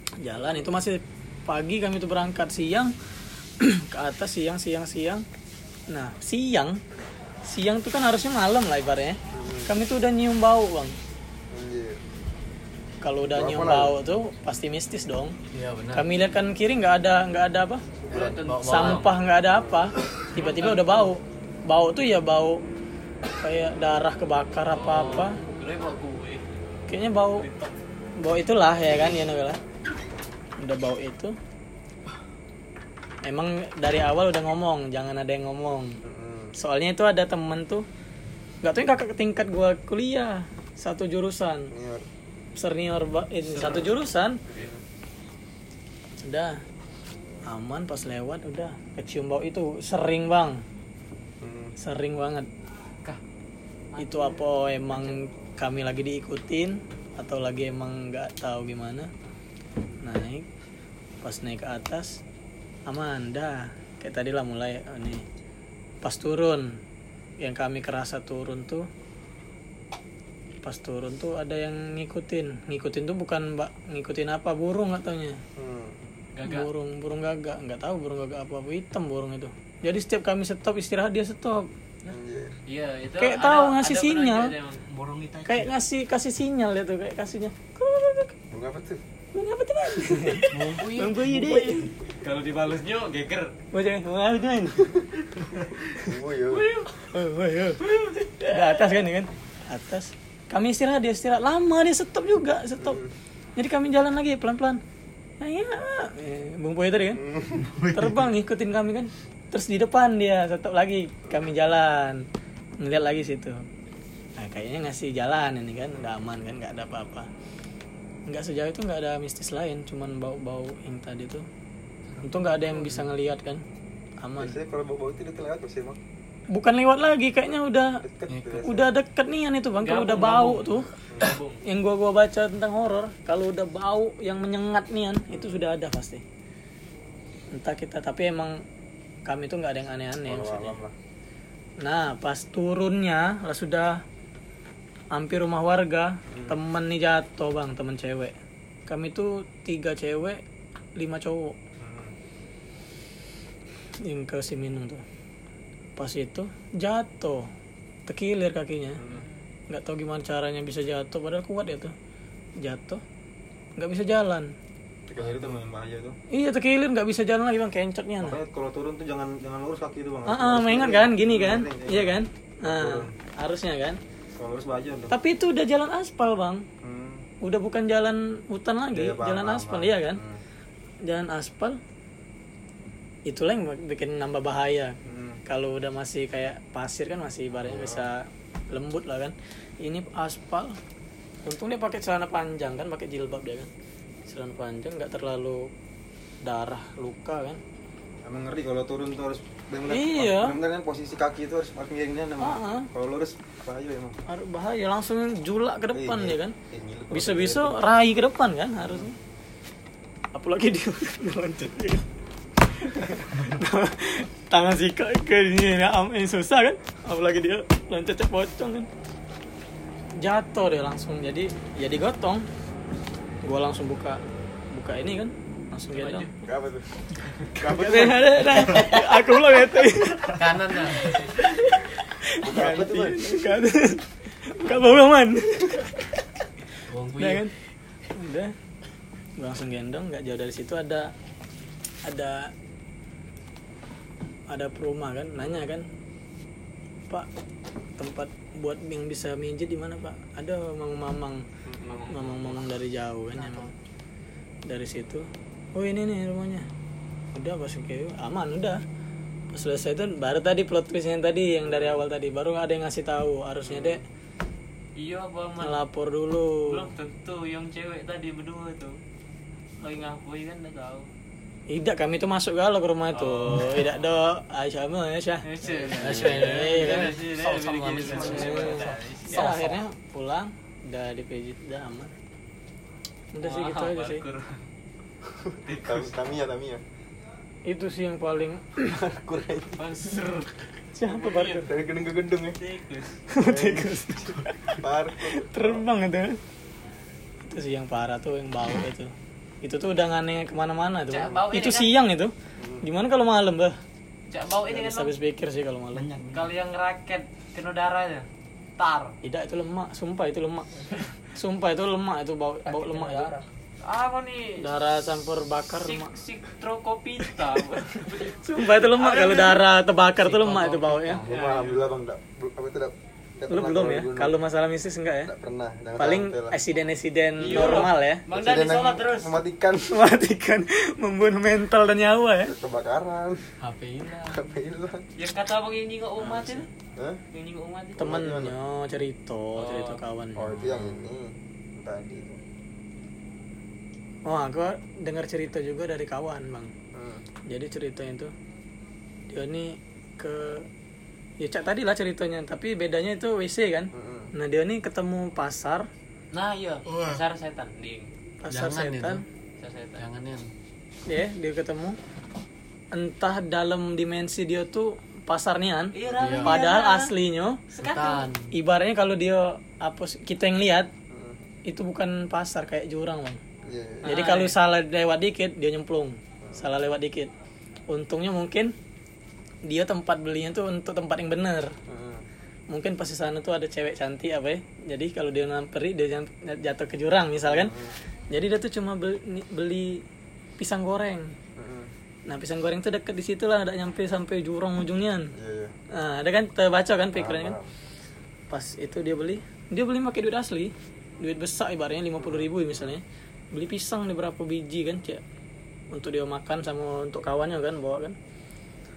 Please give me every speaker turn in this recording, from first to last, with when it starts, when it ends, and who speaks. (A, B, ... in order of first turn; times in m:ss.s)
0:00.2-0:02.9 A
0:03.6-0:05.2 A
0:05.9-0:06.8 A
0:07.5-0:11.0 A
0:09.3-0:09.7 B
0:11.5-0:12.0 B
0:13.0-0:15.4 A
0:13.3-0:14.0 B
0:15.5-0:16.1 C
0:15.9-0:17.8 A
0:18.0-0:18.5 B
0:18.1-0:19.1 D
0:18.3-0:19.1 C
0:18.6-0:22.6 A
0:19.4-0:20.1 B
0:20.4-0:21.1 D
0:23.4-0:25.4 A
0:24.7-0:26.4 D
0:26.9-0:27.5 A
0:27.4-0:27.7 D
0:28.2-0:29.6 A
0:30.6-0:31.4 A
0:33.2-0:36.0 A
0:36.0-0:36.5 B
0:36.6-0:37.8 A
0:38.6-0:41.7 A
0:41.7-0:42.1 B
0:42.6-0:44.4 A
0:43.5-0:43.9 D
0:44.5-0:44.8 B
0:46.2-0:46.6 A
0:47.5-0:50.6 A
0:51.4-0:51.7 B
0:51.8-0:52.5 A
0:53.9-0:55.1 D
0:54.0-0:59.1 A
1:00.0-1:00.4 A
1:01.2-1:02.2 A
1:02.9-1:05.2 A
1:06.0-1:06.8 A
1:07.4-1:08.9 A
1:10.6-1:15.4 A
1:15.6-1:16.0 B
1:16.4-1:16.7 D
1:16.4-1:21.7 A
1:22.0-1:22.6 B
1:22.7-1:24.8 D
1:23.2-1:24.5 A
1:24.9-1:25.7 E
1:25.4-1:28.3 A
1:28.5-1:29.0 B
1:29.3-1:31.9 A
1:30.5-1:31.9 C
1:32.2-1:33.5 D
1:33.7-1:35.0 A
1:35.9-1:36.7 B
1:36.5-1:36.9 D
1:37.0-1:37.8 A
1:37.8-1:38.7 D
1:38.4-1:43.0 A
1:42.8-1:43.1 B
1:43.6-1:44.8 A
1:45.4-1:47.2 A
1:47.1-1:47.7 B
1:47.7-1:48.2 C
1:47.8-1:52.2 A
1:52.8-1:53.7 A
1:54.4-1:57.3 A
1:58.3-2:01.4 A
2:02.1-2:03.1 C
2:02.2-2:03.6 A
2:04.2-2:04.6 A
2:04.4-2:06.0 B
2:06.5-2:08.0 A
2:08.0-2:08.9 B
2:08.3-2:08.7 C
2:08.6-2:10.9 A
2:09.8-2:11.6 D
2:11.1-2:11.3 B
2:11.6-2:16.2 A
2:17.5-2:18.6 A
2:19.3-2:20.8 A
2:20.3-2:20.9 B
2:21.8-2:24.0 A
2:25.1-2:28.3 A
2:26.3-2:26.6 B
2:28.9-2:30.4 A
2:31.0-2:31.6 A
2:31.8-2:32.1 B
2:34.0-2:35.0 A
2:36.0-2:37.5 A
2:38.1-2:39.0 A
2:39.0-2:39.2 B
2:39.7-2:41.9 A
2:42.6-2:43.0 A
2:43.8-2:44.5 A
2:45.0-2:46.2 B
2:45.2-2:45.6 C
2:46.3-2:48.4 A
2:48.2-2:53.1 B
2:50.3-2:54.0 A
2:54.4-2:55.1 B
2:55.1-2:56.6 A
2:56.8-2:57.2 B
2:57.4-3:00.2 A
2:58.9-3:00.4 B
3:01.0-3:01.8 A
3:03.3-3:10.8 A
3:05.0-3:05.4 B
3:07.6-3:08.1 B
3:11.4-3:13.7 A
3:14.3-3:15.7 A
3:16.4-3:17.6 A
3:18.2-3:24.2 B
3:19.9-3:20.6 A
3:22.4-3:22.9 A
3:24.3-3:26.5 A
3:25.9-3:27.8 B
3:27.1-3:29.1 A
3:28.8-3:29.1 B
3:30.3-3:32.0 A
3:32.7-3:38.9 A
3:40.2-3:42.4 A
3:43.4-3:46.3 A
3:45.9-3:46.3 D
3:46.4-3:48.9 B
3:47.6-3:50.4 A
3:50.3-3:51.4 C
3:51.0-3:56.1 A
3:52.4-3:53.4 B
3:56.9-3:57.5 C
3:57.2-3:57.5 A
3:58.2-3:58.5 A
3:59.4-4:01.1 A
4:02.0-4:02.5 A
4:04.5-4:05.9 A
4:08.0-4:11.4 A
4:11.8-4:12.6 D
4:12.1-4:13.7 A
4:14.7-4:16.7 A
4:17.3-4:18.8 A
4:19.5-4:24.0 A
4:21.6-4:22.0 B
4:23.6-4:24.0 B
4:25.0-4:25.8 D
4:25.6-4:26.9 A
4:26.6-4:29.0 D
4:29.8-4:31.1 D
4:31.7-4:37.2 A
4:33.1-4:33.9 D
4:35.4-4:39.8 D
4:35.6-4:39.7 C
4:38.0-4:38.9 B
4:38.1-4:42.1 A
4:43.3-4:44.2 A
4:43.4-4:44.6 D
4:45.6-4:46.1 D
4:45.7-4:46.8 B
4:47.7-4:48.9 A
4:48.9-4:49.9 B
4:49.8-4:51.8 D
4:50.9-4:51.7 A
4:51.6-4:52.6 B
4:52.6-4:53.1 D
4:53.3-4:56.4 A
4:53.4-4:55.8 B
4:57.4-4:59.1 A
4:59.6-5:03.8 A
5:01.1-5:01.9 D
5:02.6-5:02.8 B
5:04.3-5:05.1 D
5:04.7-5:06.1 A
5:06.1-5:06.4 E
5:06.3-5:08.2 D
5:08.8-5:09.1 D
5:09.2-5:10.7 A
5:11.3-5:13.3 A
5:12.6-5:13.4 E
5:13.8-5:14.7 D
5:14.6-5:16.1 A
5:15.8-5:19.6 D
5:18.3-5:21.2 A
5:20.2-5:21.2 C
5:21.1-5:21.9 D
5:21.2-5:24.4 B
5:23.5-5:25.3 A
5:25.2-5:26.6 B
5:26.0-5:28.2 A
5:27.4-5:29.4 D
5:27.4-5:30.0 B
5:29.9-5:32.5 A
5:32.5-5:33.5 B
5:33.6-5:34.4 C
5:34.2-5:35.0 B
5:35.2-5:36.7 D
5:36.2-5:37.2 B
5:37.3-5:38.0 D
5:38.0-5:38.6 B
5:38.0-5:40.6 A
5:39.6-5:40.0 D
5:40.4-5:42.4 B
5:40.6-5:40.9 C
5:44.2-5:46.7 A
5:46.9-5:47.2 B
5:47.5-5:48.3 A
5:49.3-5:50.6 A
5:51.4-5:55.9 A
5:53.9-5:54.3 B
5:56.3-5:58.1 D
5:56.9-5:57.2 C
5:58.4-5:59.2 A
5:58.5-5:59.2 C
5:59.6-6:00.0 D
6:00.0-6:00.5 C
6:01.1-6:02.0 A
6:02.9-6:07.6 A
6:05.9-6:07.1 D
6:06.2-6:06.6 C
6:07.7-6:08.3 D
6:07.8-6:08.5 C
6:08.5-6:10.9 A
6:11.1-6:11.4 B
6:11.7-6:13.4 A
6:13.6-6:14.1 B
6:14.0-6:14.6 D
6:14.0-6:17.3 A
6:16.4-6:16.7 B
6:17.9-6:18.7 A
6:19.7-6:21.8 A
6:21.9-6:22.2 B
6:22.7-6:27.7 A
6:27.4-6:27.9 B
6:28.3-6:30.0 A
6:30.6-6:31.3 A
6:31.6-6:31.9 B
6:32.3-6:35.3 A
6:35.4-6:35.7 B
6:35.9-6:37.6 A
6:37.1-6:37.7 B
6:38.5-6:45.2 A
6:42.2-6:42.9 B
6:45.9-6:48.2 A